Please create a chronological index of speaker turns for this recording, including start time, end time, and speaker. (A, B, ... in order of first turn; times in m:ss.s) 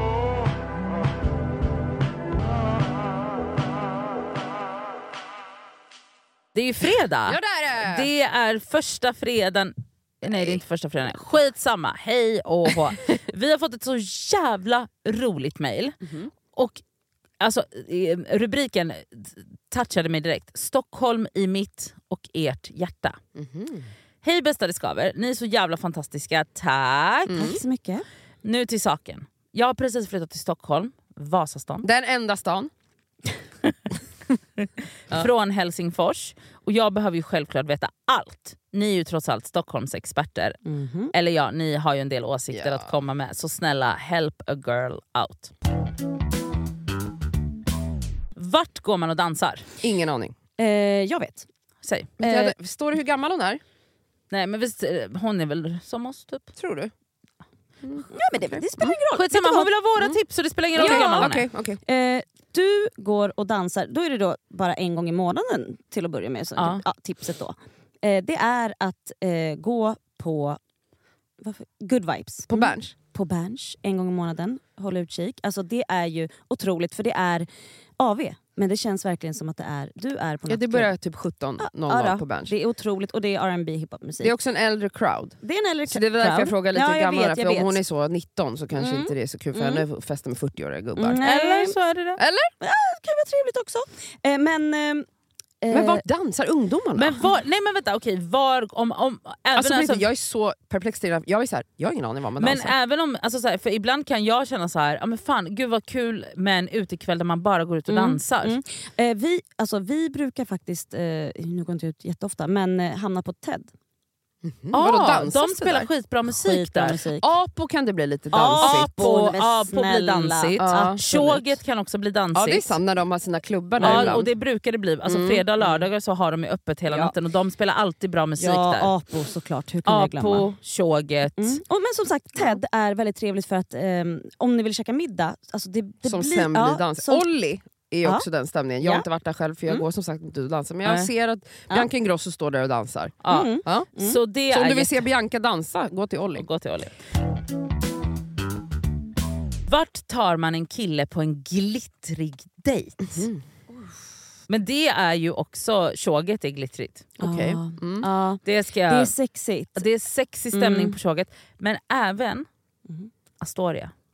0:06.5-0:16.0 A
0:07.3-0:08.1 B
0:10.2-0:10.6 B
0:16.0-0:16.3 B
0:16.5-0:16.8 A
0:17.4-0:23.2 A
0:23.4-0:23.9 B
0:24.2-0:27.6 A
0:27.3-0:27.6 B
0:27.3-0:28.0 C
0:28.4-0:31.8 A
0:31.8-0:32.7 B
0:35.1-0:40.6 A
0:40.6-0:41.1 C
0:41.1-0:45.5 A
0:42.5-0:42.9 B
0:48.4-0:49.6 A
0:49.8-0:50.3 B
0:50.6-0:51.5 C
0:51.8-0:52.1 A
0:52.2-0:53.6 B
0:52.2-0:52.5 C
0:54.3-0:56.5 A
0:56.6-0:56.9 B
0:57.8-0:59.0 B
0:58.1-0:59.7 C
0:59.1-1:01.4 A
1:00.7-1:10.6 C
1:00.8-1:01.8 B
1:06.6-1:06.8 A
1:11.4-1:17.4 C
1:12.5-1:12.9 B
1:18.0-1:21.0 C
1:20.5-1:22.5 B
1:21.6-1:24.3 C
1:24.2-1:31.2 B
1:25.4-1:27.8 C
1:28.7-1:29.8 C
1:31.0-1:31.8 C
1:31.2-1:32.2 A
1:32.2-1:32.5 B
1:32.6-1:35.0 C
1:35.6-1:36.0 C
1:35.7-1:37.3 B
1:36.9-1:40.1 A
1:39.6-1:42.7 B
1:42.4-1:48.6 A
1:47.9-1:53.7 C
1:54.4-1:55.9 B
1:54.7-1:57.0 A
1:56.3-1:57.3 C
1:57.1-1:59.0 B
1:58.3-2:01.6 C
1:58.6-2:02.8 A
2:00.6-2:01.0 B
2:02.3-2:04.3 B
2:03.8-2:04.2 C
2:03.8-2:08.9 A
2:05.0-2:05.4 B
2:05.6-2:05.9 C
2:08.4-2:10.5 C
2:09.8-2:11.6 A
2:11.4-2:17.3 C
2:16.0-2:23.9 B
2:18.8-2:19.0 C
2:23.2-2:25.0 A
2:23.3-2:24.2 C
2:24.5-2:26.4 B
2:26.4-2:27.0 A
2:29.7-2:33.3 A
2:33.0-2:33.4 B
2:34.5-2:37.1 A
2:37.2-2:38.1 B
2:37.2-2:39.8 C
2:38.4-2:39.1 A
2:39.8-2:42.4 A
2:40.5-2:41.0 C
2:43.4-2:43.9 A